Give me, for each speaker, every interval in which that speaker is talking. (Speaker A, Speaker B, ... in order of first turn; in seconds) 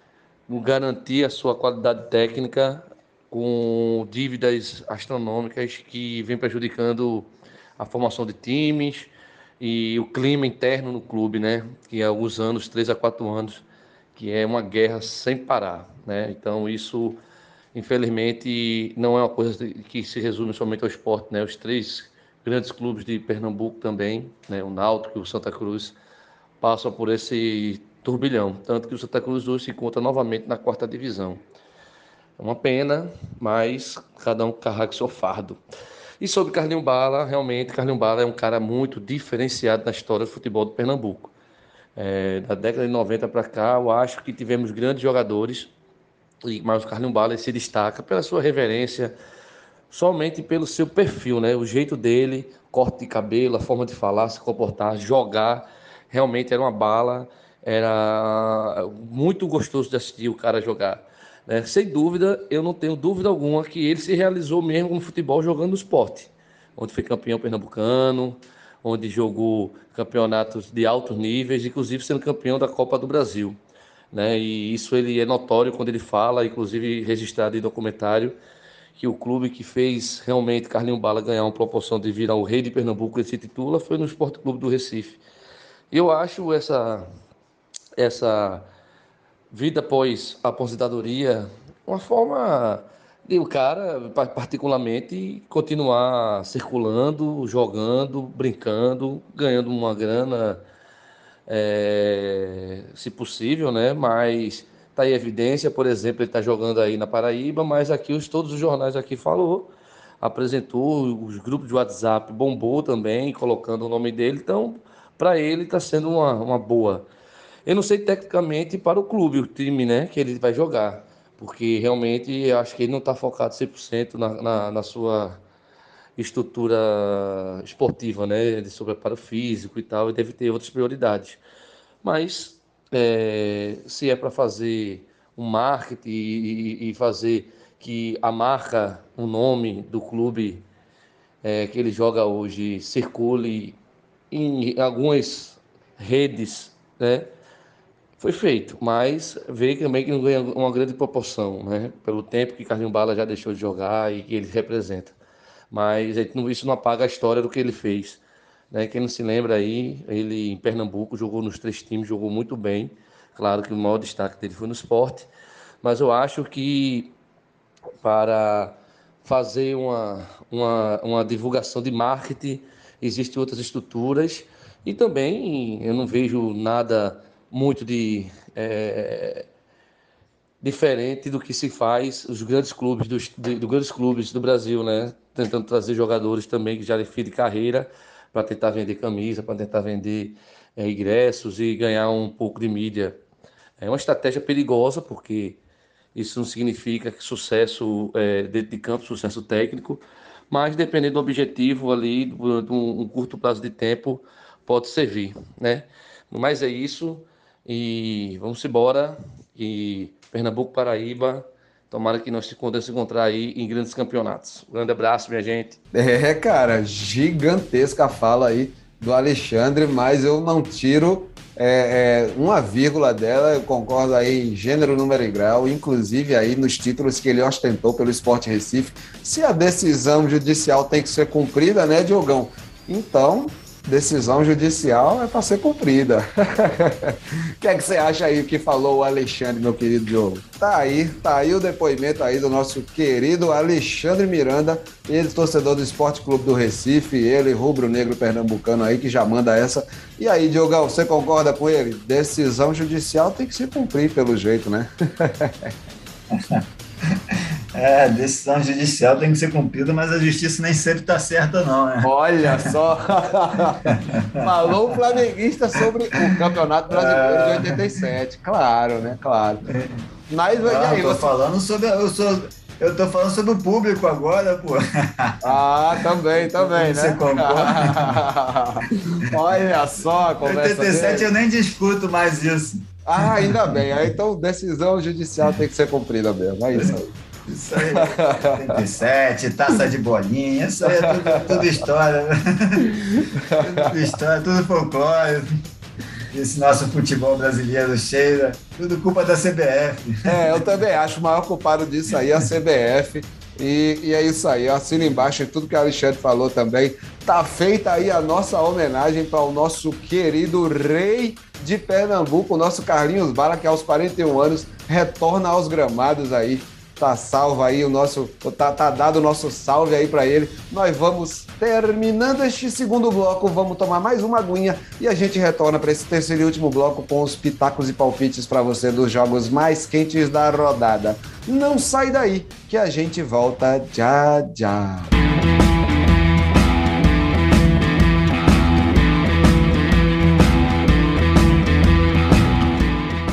Speaker A: 0.5-13.6, 14.2-17.2, 17.7-25.9, 26.6-31.4, 32.4-35.6, 36.2-41.3, 42.0-45.7, 46.5-49.1, 49.9-73.6, 74.1-78.4, 79.0-85.2, 85.9-87.1, 88.0-88.7, 89.5-100.6, 101.5-109.7, 110.2-117.1, 117.7-125.4, 126.2-131.4, 132.0-140.7, 141.4-143.8, 144.3-147.3, 148.2-155.2, 155.7-158.2, 158.7-165.3, 165.8-167.1, 168.0-179.4, 180.6-193.2, 193.8-195.6, 196.2-215.8
Speaker B: 215.9-255.7, 262.0-269.6, 270.3-271.3, 275.4-281.3, 283.1-287.1, 287.8-288.8, 290.9-291.8, 292.9-293.9, 300.3-335.1
Speaker C: 256.3-262.7, 263.9-265.0, 266.9-268.0, 269.6-270.0, 270.6-275.4, 276.3-278.2, 280.4-284.1, 287.5-292.9, 293.6-295.5, 296.3-300.7